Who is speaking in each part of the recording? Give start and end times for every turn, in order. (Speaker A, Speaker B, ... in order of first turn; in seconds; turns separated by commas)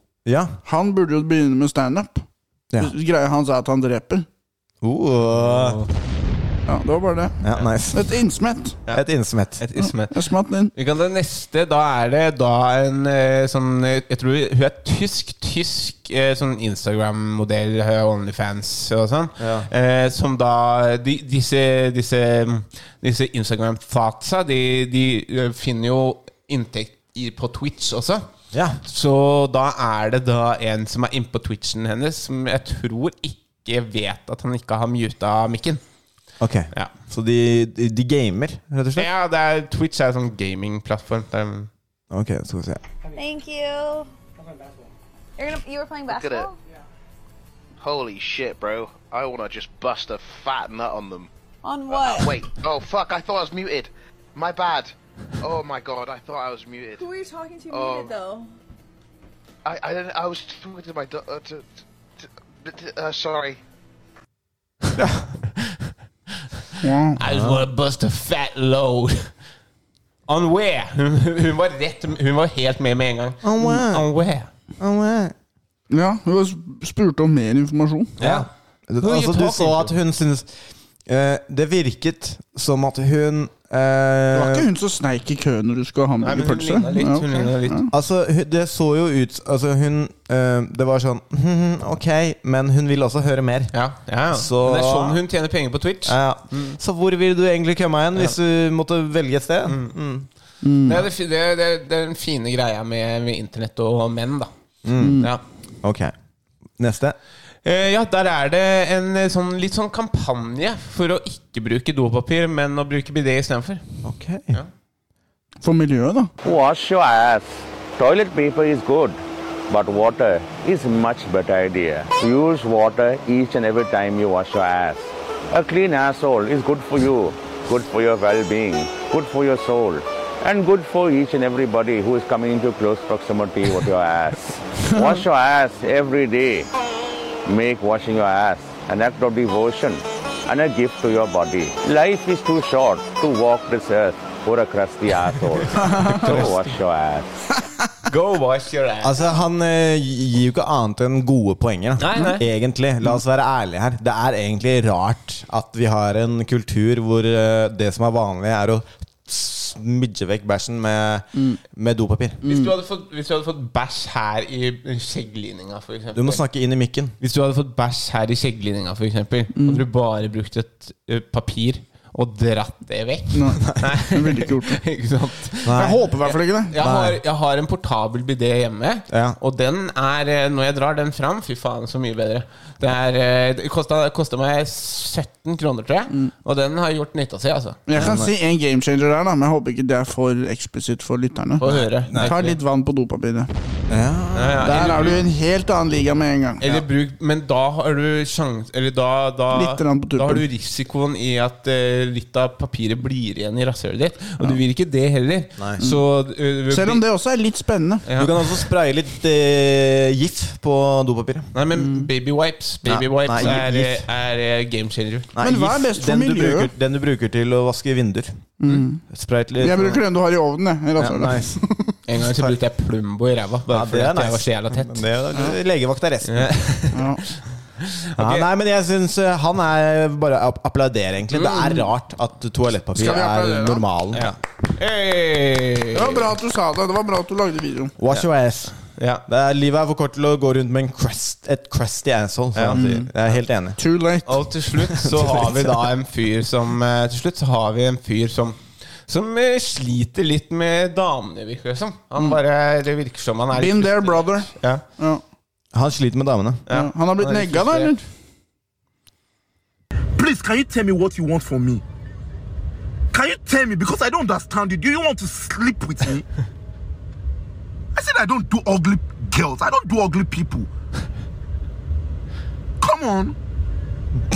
Speaker A: 0.2-0.6, Speaker B: 0.7-2.2, Speaker B: 2.8-4.3, Speaker A: 4.8-5.8, Speaker C: 5.4-5.9, Speaker B: 6.7-8.8, Speaker A: 7.4-8.1, Speaker A: 8.9-9.6, Speaker C: 9.6-28.3, Speaker B: 9.8-10.7, Speaker A: 19.4-19.7, Speaker A: 28.5-28.8, Speaker C: 28.8-35.8, Speaker A: 36.4-39.1, Speaker C: 39.0-41.7, Speaker A: 42.1-42.8, Speaker D: 43.1-44.1, Speaker D: 45.4-46.5, Speaker E: 46.1-46.5, Speaker E: 47.8-51.3, Speaker D: 51.6-52.4, Speaker E: 51.9-58.2, Speaker D: 57.0-58.5, Speaker E: 59.6-61.7, Speaker E: 62.2-63.6, Speaker B: 66.8-67.2, Speaker C: 67.2-69.3, Speaker A: 67.2-67.6, Speaker C: 70.3-74.5, Speaker A: 73.4-74.1, Speaker A: 74.8-75.3, Speaker B: 75.9-78.2, Speaker A: 78.2-80.5, Speaker C: 78.2-78.5, Speaker C: 79.0-80.0, Speaker A: 81.1-84.7, Speaker B: 84.3-87.9, Speaker C: 86.2-87.8, Speaker A: 87.9-93.7, Speaker C: 93.7-96.8, Speaker A: 94.3-95.2, Speaker A: 96.1-100.3, Speaker C: 99.7-100.0, Speaker B: 100.6-101.1, Speaker C: 100.8-104.5, Speaker A: 104.8-105.3, Speaker B: 105.0-105.3, Speaker A: 105.8-106.1, Speaker A: 106.8-107.2, Speaker C: 107.6-113.8, Speaker A: 114.0-114.6, Speaker B: 115.6-116.3, Speaker F: 116.4-119.2, Speaker F: 119.7-136.7, Speaker B: 134.9-135.2, Speaker F: 137.5-147.4, Speaker B: 145.8-146.3, Speaker C: 146.1-146.8, Speaker C: 148.1-149.2, Speaker A: 149.0-162.4, Speaker C: 152.0-152.4, Speaker C: 162.4-166.4, Speaker A: 166.2-167.2, Speaker C: 167.2-187.8, Speaker B: 169.6-169.8, Speaker B: 173.3-174.8, Speaker A: 175.7-176.0, Speaker B: 175.8-176.8, Speaker A: 176.8-177.2, Speaker A: 179.1-179.4, Speaker B: 187.9-193.5, Speaker A: 187.9-188.3, Speaker C: 191.6-192.6, Speaker A: 191.7-192.3, Speaker A: 193.9-195.2, Speaker C: 194.3-195.2, Speaker B: 194.6-196.6, Speaker C: 196.6-207.0, Speaker B: 199.5-200.4, Speaker B: 206.7-208.0, Speaker C: 208.1-208.6, Speaker A: 208.2-211.5, Speaker C: 211.5-215.3, Speaker B: 211.8-212.1, Speaker A: 212.8-214.1, Speaker A: 215.3-218.5, Speaker B: 215.4-216.7, Speaker B: 218.6-219.1, Speaker A: 219.1-220.0, Speaker B: 219.6-221.9, Speaker A: 221.0-221.6, Speaker C: 222.1-225.0, Speaker A: 222.2-222.6, Speaker A: 223.7-226.6, Speaker C: 226.3-227.0, Speaker B: 226.9-227.2, Speaker C: 227.8-228.5, Speaker A: 228.2-234.4, Speaker C: 231.3-231.8, Speaker B: 233.0-233.8, Speaker C: 234.1-236.3, Speaker B: 235.9-238.0, Speaker A: 238.0-243.8, Speaker C: 239.0-239.2, Speaker C: 242.6-242.9, Speaker B: 242.7-243.1, Speaker B: 243.8-244.5, Speaker C: 244.3-254.8, Speaker A: 245.1-245.7, Speaker B: 253.5-255.2, Speaker A: 255.7-256.6, Speaker C: 256.7-257.9, Speaker B: 256.7-258.1, Speaker G: 260.2-261.8, Speaker G: 263.1-266.2, Speaker G: 267.9-270.7, Speaker G: 272.8-273.4